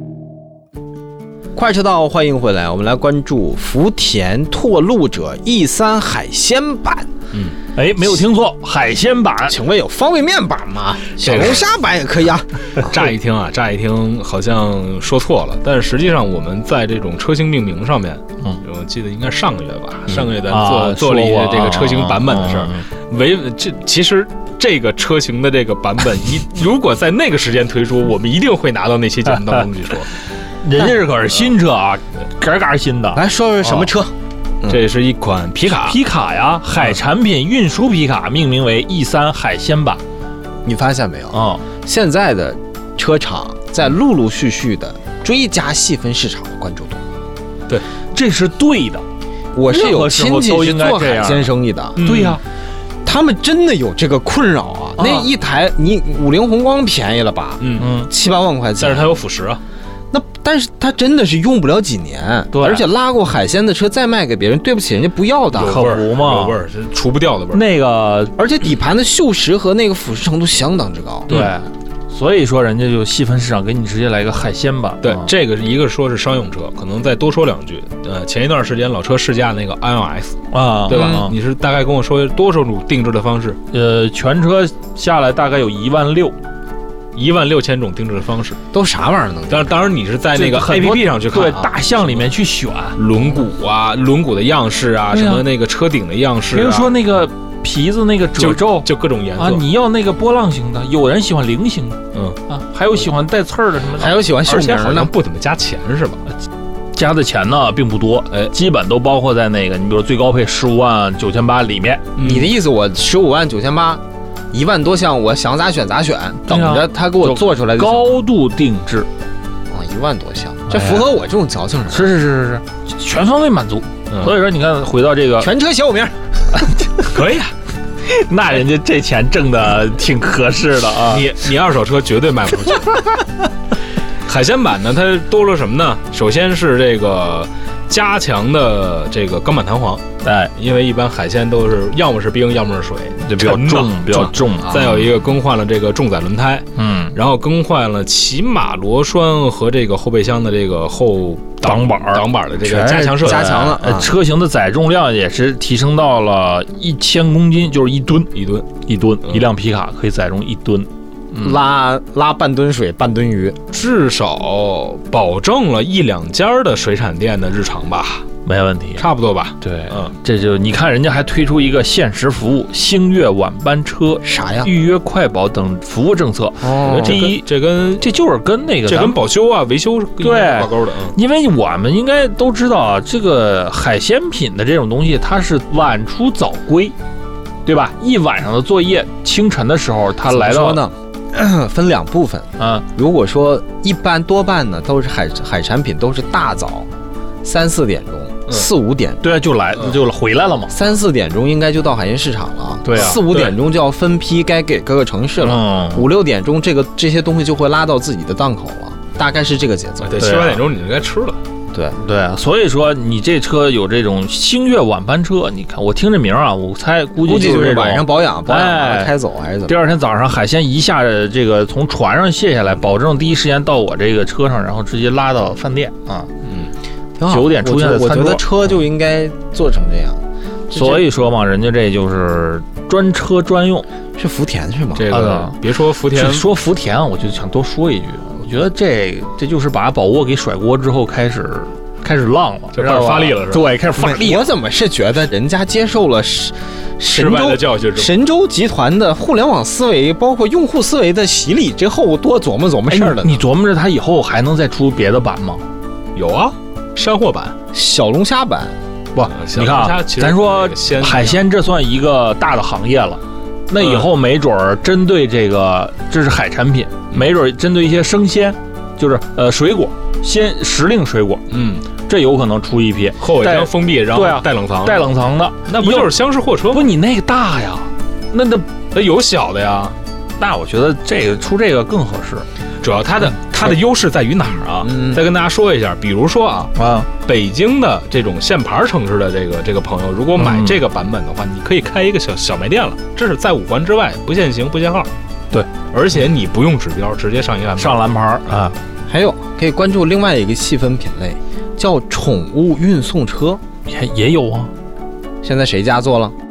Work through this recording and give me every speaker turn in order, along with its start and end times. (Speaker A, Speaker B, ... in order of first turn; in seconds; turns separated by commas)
Speaker A: 1.5-7.1, Speaker B: 7.7-9.6, Speaker A: 9.5-13.0, Speaker C: 11.2-11.7, Speaker C: 12.8-30.1, Speaker B: 20.4-22.9, Speaker B: 29.3-29.6, Speaker B: 30.6-33.9, Speaker A: 33.1-34.1, Speaker C: 34.7-36.0, Speaker B: 35.6-40.0, Speaker A: 40.6-47.0, Speaker B: 41.3-41.6, Speaker B: 48.1-49.0, Speaker A: 49.5-52.0, Speaker B: 49.7-51.5, Speaker C: 52.0-52.4, Speaker B: 52.0-52.4, Speaker A: 53.0-59.2, Speaker B: 55.0-55.3, Speaker C: 57.6-57.9, Speaker B: 57.8-58.1, Speaker C: 58.8-59.6, Speaker A: 60.1-65.8, Speaker B: 62.5-62.9, Speaker B: 65.5-66.6, Speaker C: 65.5-67.7, Speaker B: 67.5-68.3, Speaker A: 68.4-71.3, Speaker B: 71.3-75.3, Speaker C: 75.0-83.6, Speaker B: 80.5-81.3, Speaker A: 80.9-81.3, Speaker B: 83.7-86.3, Speaker C: 87.1-88.6, Speaker A: 88.7-89.7, Speaker C: 89.5-92.3, Speaker B: 90.3-93.0, Speaker C: 92.9-97.0, Speaker B: 95.1-95.5, Speaker B: 96.5-104.2, Speaker C: 98.4-99.6, Speaker C: 102.1-102.4, Speaker A: 104.0-105.1, Speaker C: 104.4-106.2, Speaker B: 106.9-112.0, Speaker C: 112.1-112.5, Speaker A: 112.2-118.1, Speaker B: 116.4-119.1, Speaker A: 119.7-122.1, Speaker B: 120.7-121.1, Speaker B: 121.9-125.5, Speaker C: 124.1-124.4, Speaker A: 125.4-126.1, Speaker B: 126.6-126.9, Speaker C: 127.0-127.5, Speaker B: 128.0-131.3, Speaker C: 131.1-133.2, Speaker C: 134.2-140.0, Speaker B: 140.2-140.5, Speaker C: 140.6-153.8, Speaker B: 143.2-145.1, Speaker B: 146.8-147.2, Speaker B: 151.6-152.3, Speaker A: 152.6-154.1, Speaker B: 153.2-161.6, Speaker C: 158.3-158.7, Speaker A: 161.3-163.6, Speaker C: 163.7-168.2, Speaker B: 168.4-169.1, Speaker C: 169.0-170.1, Speaker B: 169.6-179.2, Speaker A: 174.2-174.7, Speaker A: 176.6-177.2, Speaker C: 176.8-178.1, Speaker C: 178.8-181.2, Speaker B: 180.2-186.9, Speaker B: 187.6-190.8, Speaker A: 190.2-196.9, Speaker B: 192.6-192.8, Speaker A: 197.4-199.2, Speaker B: 199.2-200.7, Speaker A: 200.7-210.2, Speaker B: 202.8-203.2, Speaker C: 202.9-203.5, Speaker B: 205.4-206.1, Speaker C: 210.0-211.4, Speaker B: 210.2-210.6, Speaker B: 211.9-219.1, Speaker A: 217.2-219.7, Speaker B: 219.7-226.3, Speaker C: 226.4-226.7, Speaker A: 227.2-230.2, Speaker B: 227.3-228.7, Speaker A: 230.7-231.1, Speaker B: 230.7-233.9, Speaker A: 234.2-235.1, Speaker C: 234.9-236.5, Speaker B: 235.1-244.4, Speaker C: 242.7-243.6, Speaker A: 243.9-253.5, Speaker C: 247.1-248.1, Speaker B: 252.9-255.6, Speaker C: 256.1-257.6, Speaker A: 257.7-258.7, Speaker B: 259.1-271.4, Speaker C: 259.2-261.4, Speaker C: 263.8-264.1, Speaker C: 271.5-271.9, Speaker B: 272.0-276.1, Speaker C: 273.2-275.1, Speaker C: 275.6-276.9, Speaker B: 276.7-278.7, Speaker C: 278.9-279.9, Speaker B: 280.4-282.4, Speaker C: 282.8-286.7, Speaker A: 284.8-285.2, Speaker B: 286.8-287.1, Speaker C: 287.2-295.1, Speaker B: 290.4-290.8, Speaker C: 295.9-298.1, Speaker B: 297.8-298.8, Speaker A: 299.1-303.6, Speaker B: 303.9-304.7, Speaker A: 305.4-306.3